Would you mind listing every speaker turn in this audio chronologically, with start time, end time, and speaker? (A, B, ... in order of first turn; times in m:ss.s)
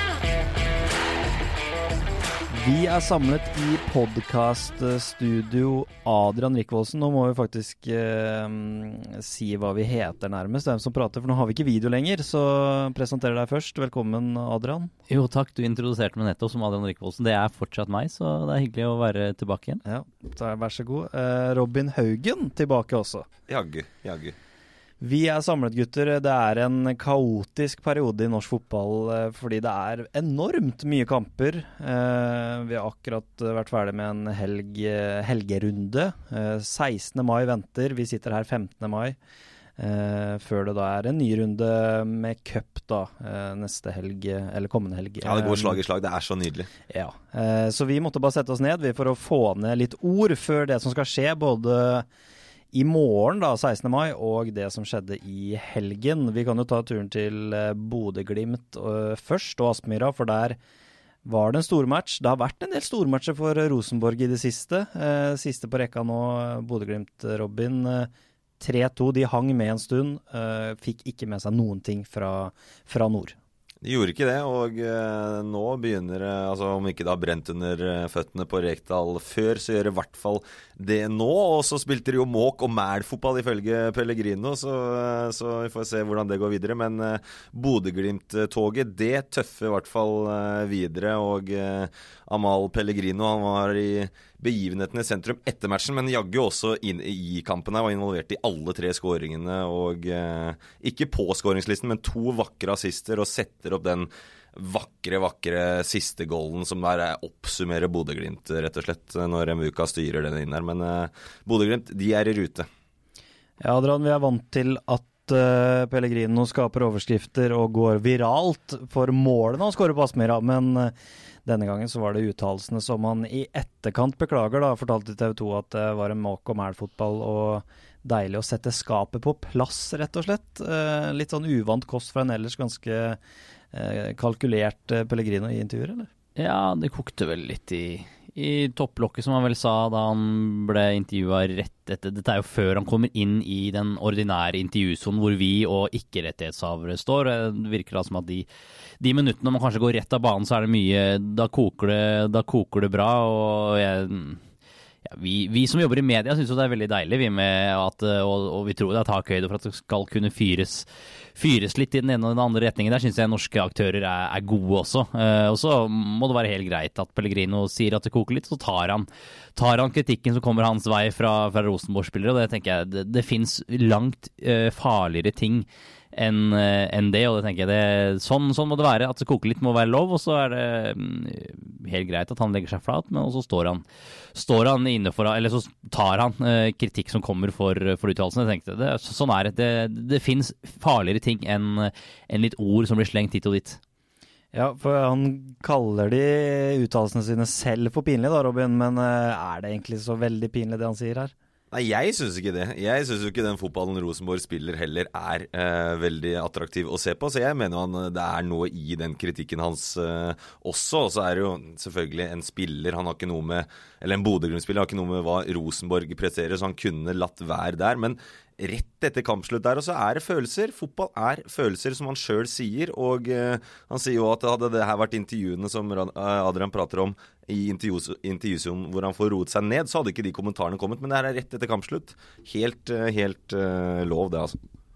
0:02.5-0:14.9 A
0:15.1-0:19.8 B
0:19.8-0:23.3 A
0:23.5-0:24.4 C
0:25.0-0:39.2 A
0:39.8-0:45.8 A
0:45.2-0:46.7 C
0:46.9-0:52.1 A
0:52.7-1:00.6 A
1:01.2-1:13.4 A
1:13.8-1:52.7 C
1:53.6-2:00.9 A
2:01.4-2:13.2 A
2:13.7-2:16.1 A
2:16.4-2:28.5 B
2:29.0-2:34.4 B
2:35.1-3:13.8 B
3:14.5-3:21.3 A
3:21.7-3:54.6 C